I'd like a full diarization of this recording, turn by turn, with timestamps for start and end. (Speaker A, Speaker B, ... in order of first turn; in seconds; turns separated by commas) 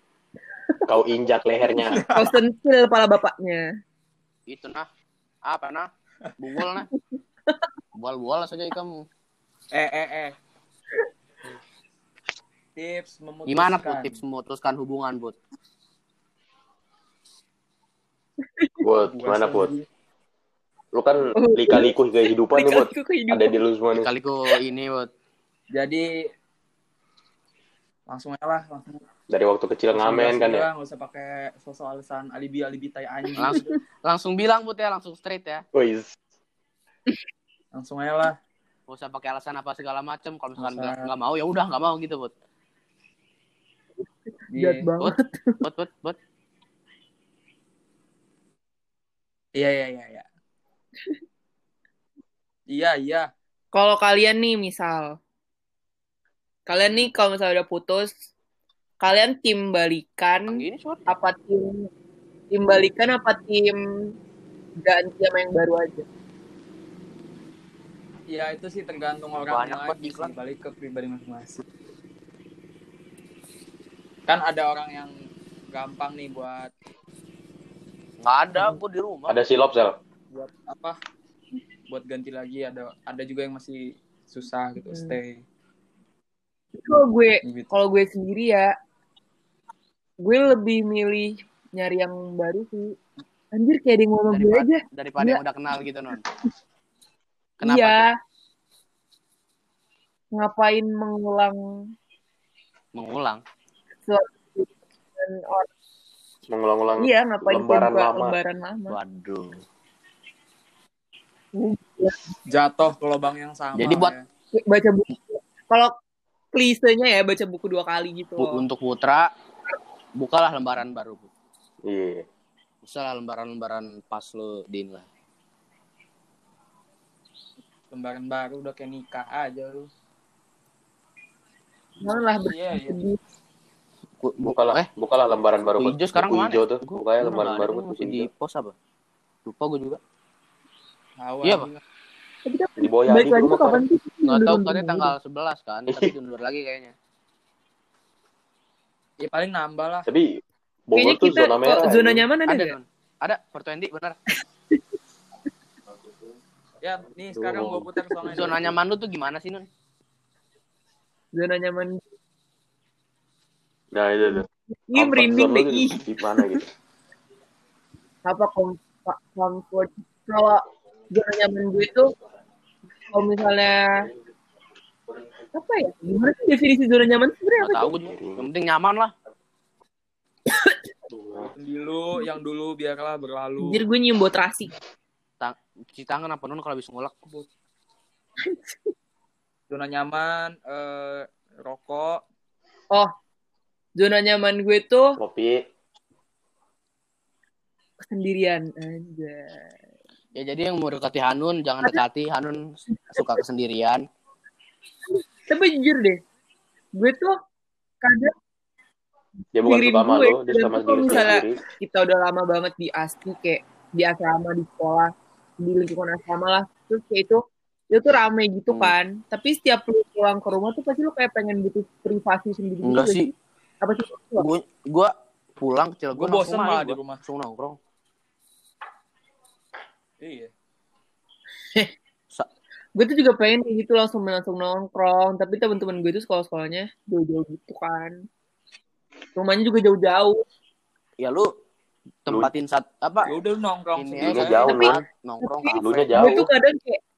Speaker A: 0.7-0.9, Speaker B: 0.9-2.0, Speaker C: 1.8-2.4, Speaker A: 2.1-3.6, Speaker D: 4.5-4.9, Speaker D: 5.5-6.9, Speaker A: 7.1-7.7, Speaker D: 8.0-9.1, Speaker C: 9.7-10.3, Speaker C: 12.8-14.2, Speaker D: 13.5-15.4, Speaker A: 18.4-18.8, Speaker B: 18.8-19.7, Speaker C: 19.1-19.9, Speaker B: 20.9-24.1, Speaker A: 21.4-21.9, Speaker A: 22.5-23.6, Speaker D: 23.9-25.1, Speaker C: 25.7-26.1, Speaker C: 28.1-29.0, Speaker B: 29.3-30.7, Speaker C: 29.9-33.7, Speaker D: 33.4-35.6, Speaker B: 35.7-36.2, Speaker C: 37.7-38.4, Speaker D: 38.9-42.3, Speaker C: 40.6-41.1, Speaker C: 44.5-44.8, Speaker A: 44.5-45.6, Speaker D: 45.0-46.2, Speaker C: 49.6-50.2, Speaker C: 52.7-53.3, Speaker A: 53.7-55.1, Speaker A: 56.7-58.2, Speaker A: 59.0-61.9, Speaker D: 60.5-61.0, Speaker A: 62.5-64.1, Speaker A: 64.8-66.1, Speaker C: 68.3-71.6, Speaker D: 69.5-70.3, Speaker C: 74.3-75.1, Speaker C: 75.7-76.7, Speaker D: 78.2-79.4, Speaker B: 79.3-80.0, Speaker C: 80.3-81.0, Speaker C: 81.9-85.4, Speaker A: 84.8-85.2, Speaker A: 86.8-88.7, Speaker C: 87.4-87.7, Speaker A: 90.2-92.9, Speaker A: 93.5-95.4, Speaker D: 94.3-96.2, Speaker D: 97.6-98.1, Speaker A: 97.6-98.1, Speaker A: 100.3-101.6, Speaker D: 102.9-103.4, Speaker A: 104.1-105.7, Speaker B: 106.5-108.4, Speaker A: 107.0-109.0, Speaker D: 108.9-109.6, Speaker A: 111.5-112.3, Speaker C: 112.5-114.2, Speaker D: 113.8-114.1, Speaker A: 114.5-115.9, Speaker A: 116.5-118.6, Speaker D: 118.4-119.3, Speaker D: 120.2-121.3, Speaker B: 121.8-122.2, Speaker D: 122.8-125.1, Speaker C: 127.9-129.9, Speaker A: 132.0-133.2, Speaker C: 132.5-133.0, Speaker D: 134.2-134.9, Speaker B: 134.4-138.3, Speaker D: 135.8-138.7, Speaker D: 139.4-140.0, Speaker C: 141.2-141.8, Speaker D: 141.4-141.7, Speaker A: 142.4-145.1, Speaker B: 142.8-143.8, Speaker D: 144.2-146.9, Speaker C: 149.2-150.1, Speaker B: 150.1-152.3, Speaker A: 150.9-152.7, Speaker D: 152.4-154.2, Speaker C: 156.8-158.6, Speaker B: 157.4-158.7, Speaker D: 158.2-159.7, Speaker A: 161.3-162.0, Speaker B: 163.9-166.7, Speaker A: 164.3-166.6, Speaker A: 168.2-172.1, Speaker A: 173.1-174.1, Speaker A: 175.5-177.9, Speaker D: 177.6-179.1, Speaker B: 178.0-178.4, Speaker A: 180.5-180.9, Speaker B: 181.1-181.5, Speaker C: 181.5-183.9, Speaker A: 183.6-184.7, Speaker D: 185.4-187.1, Speaker A: 188.4-188.9, Speaker C: 189.7-192.2, Speaker A: 194.0-195.2, Speaker B: 195.2-195.6, Speaker A: 198.1-199.6, Speaker D: 200.4-204.1, Speaker A: 202.9-203.2, Speaker A: 205.1-206.2, Speaker A: 207.0-207.3, Speaker A: 208.0-208.3, Speaker B: 209.6-211.6, Speaker A: 209.6-223.3, Speaker D: 222.8-223.3, Speaker A: 223.8-224.5, Speaker D: 224.4-227.8, Speaker C: 226.1-227.2, Speaker C: 230.2-230.5, Speaker A: 232.9-238.2, Speaker A: 239.4-240.4, Speaker D: 241.2-241.5, Speaker D: 242.2-243.3, Speaker C: 243.2-244.6, Speaker D: 243.9-246.3, Speaker B: 244.2-245.0, Speaker A: 244.6-247.0, Speaker B: 245.7-246.5